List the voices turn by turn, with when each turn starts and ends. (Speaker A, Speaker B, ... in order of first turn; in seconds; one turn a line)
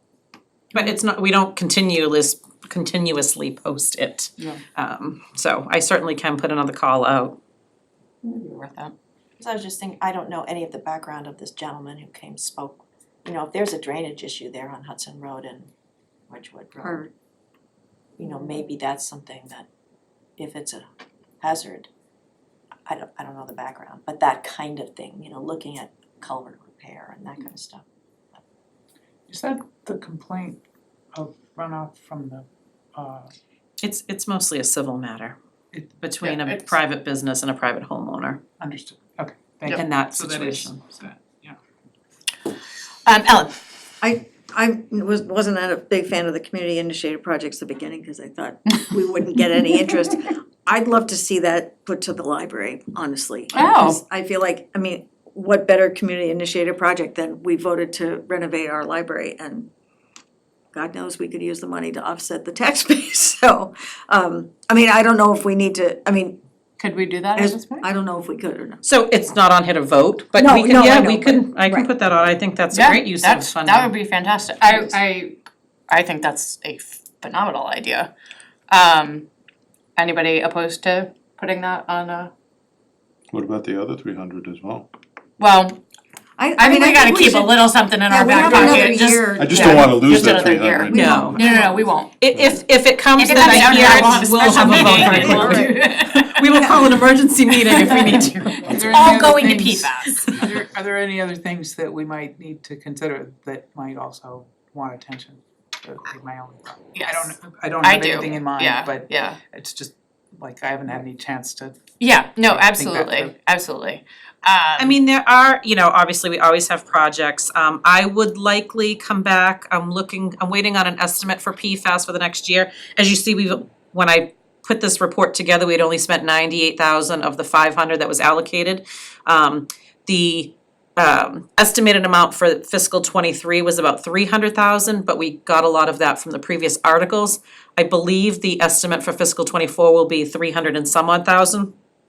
Speaker A: 0.7-7.3
Speaker B: 8.2-8.9
Speaker C: 9.4-15.7
Speaker C: 16.3-17.1
Speaker D: 16.8-17.1
Speaker C: 18.2-19.7
Speaker C: 20.4-20.9
Speaker C: 21.4-21.9
Speaker C: 22.9-27.8
Speaker E: 29.3-30.6
Speaker E: 31.1-33.3
Speaker A: 33.8-35.3
Speaker A: 36.0-38.4
Speaker B: 36.2-36.6
Speaker E: 38.6-41.6
Speaker A: 39.7-40.8
Speaker B: 43.0-43.5
Speaker D: 44.0-59.7
Speaker B: 53.5-54.0
Speaker D: 60.7-66.4
Speaker B: 66.8-67.9
Speaker D: 67.3-68.8
Speaker A: 68.8-73.9
Speaker D: 70.3-71.9
Speaker B: 72.7-75.4
Speaker B: 75.9-78.1
Speaker B: 78.7-79.3
Speaker B: 80.0-82.3
Speaker F: 83.3-84.9
Speaker B: 85.4-85.8
Speaker D: 86.4-90.0
Speaker B: 86.6-92.1
Speaker F: 89.4-91.0
Speaker D: 90.8-91.9
Speaker A: 90.9-91.5
Speaker A: 92.2-99.1
Speaker B: 93.2-96.7
Speaker D: 94.8-95.7
Speaker D: 96.5-96.9
Speaker B: 97.6-100.4
Speaker E: 98.6-111.8
Speaker B: 106.9-109.4
Speaker B: 112.0-115.0
Speaker E: 112.4-113.3
Speaker A: 114.8-141.7